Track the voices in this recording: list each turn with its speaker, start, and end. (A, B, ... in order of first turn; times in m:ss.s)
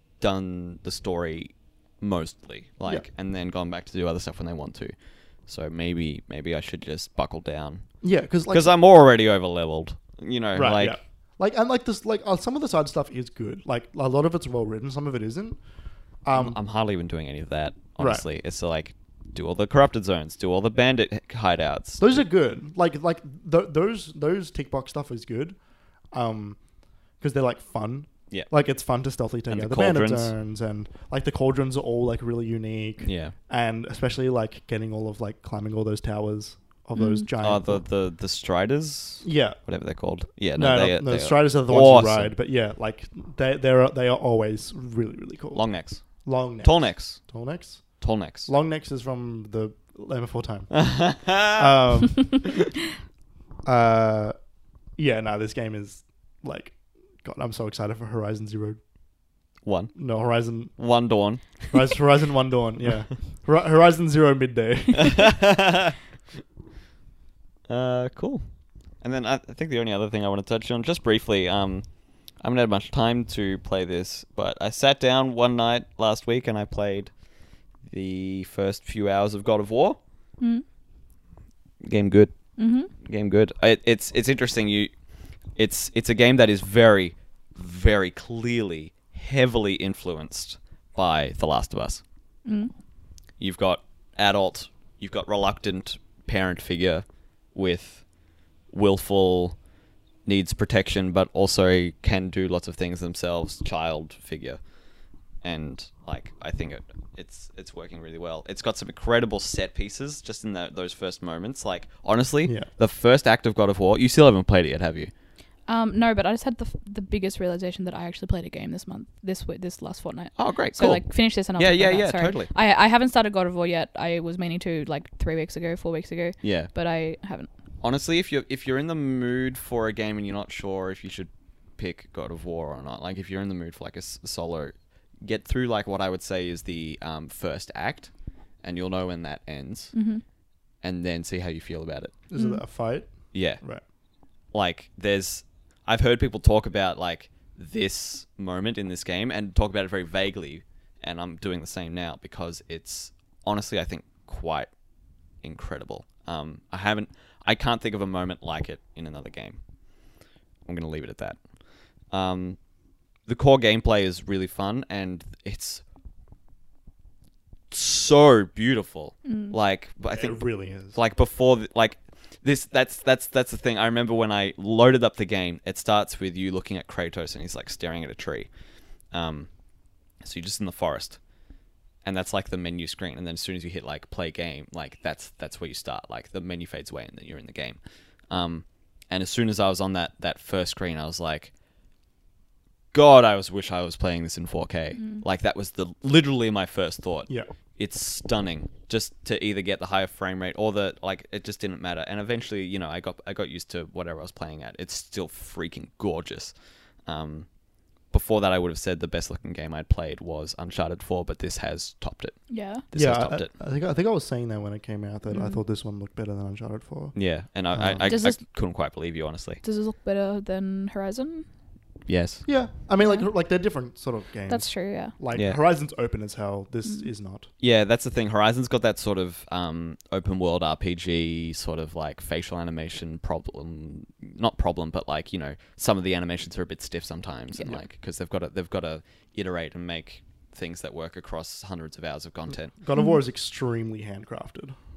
0:00.2-0:11.0 A
0:08.0-0:08.8 B
0:10.6-0:15.6 B
0:16.2-0:16.6 B
0:16.3-0:22.2 A
0:18.0-0:18.2 B
0:22.0-0:25.6 B
0:26.1-0:26.6 B
0:27.2-0:37.8 B
0:29.5-0:30.3 A
0:33.0-0:33.3 A
0:37.0-0:37.3 C
0:37.4-0:42.3 A
0:39.2-0:39.6 B
0:40.6-0:52.4 B
0:45.5-0:47.3 A
0:48.0-0:48.5 A
0:50.7-0:51.7 A
0:53.6-0:54.4 B
0:55.0-0:58.8 B
0:59.6-1:00.0 A
1:00.0-1:00.9 B
1:00.8-1:01.7 A
1:01.7-1:05.4 B
1:05.0-1:06.0 A
1:07.7-1:17.2 A
1:17.8-1:20.0 A
1:20.4-1:20.6 C
1:21.8-1:24.9 A
1:22.6-1:22.9 C
1:25.5-1:32.0 A
1:32.4-1:32.7 C
1:33.4-1:38.2 A
1:38.7-1:39.6 A
1:40.2-1:44.7 A
1:45.4-1:55.1 A
1:55.7-2:07.5 C
2:00.4-2:02.5 A
2:06.4-2:06.7 A
2:07.8-2:20.0 A
2:19.9-2:20.2 C
2:20.8-2:22.2 A
2:22.3-2:23.8 B
2:22.4-2:22.6 C
2:23.3-2:23.6 A
2:24.5-2:34.8 A
2:35.4-2:39.6 A
2:40.6-2:42.6 A
2:43.2-2:45.8 A
2:47.7-2:58.5 A
2:49.2-2:49.6 C
2:50.1-2:51.0 B
2:59.1-2:59.5 A
3:00.2-3:01.2 A
3:02.0-3:11.5 A
3:12.9-3:27.5 A
3:15.0-3:15.2 C
3:28.1-3:33.5 A
3:32.5-3:32.8 C
3:33.0-3:38.1 B
3:35.3-3:35.6 C
3:37.1-3:39.6 A
3:38.1-3:38.4 C
3:39.6-3:41.5 C
3:42.1-3:42.4 A
3:42.4-3:47.5 B
3:43.0-3:43.3 C
3:44.5-3:45.2 C
3:47.6-4:02.7 A
4:02.5-4:04.8 B
4:03.0-4:03.2 C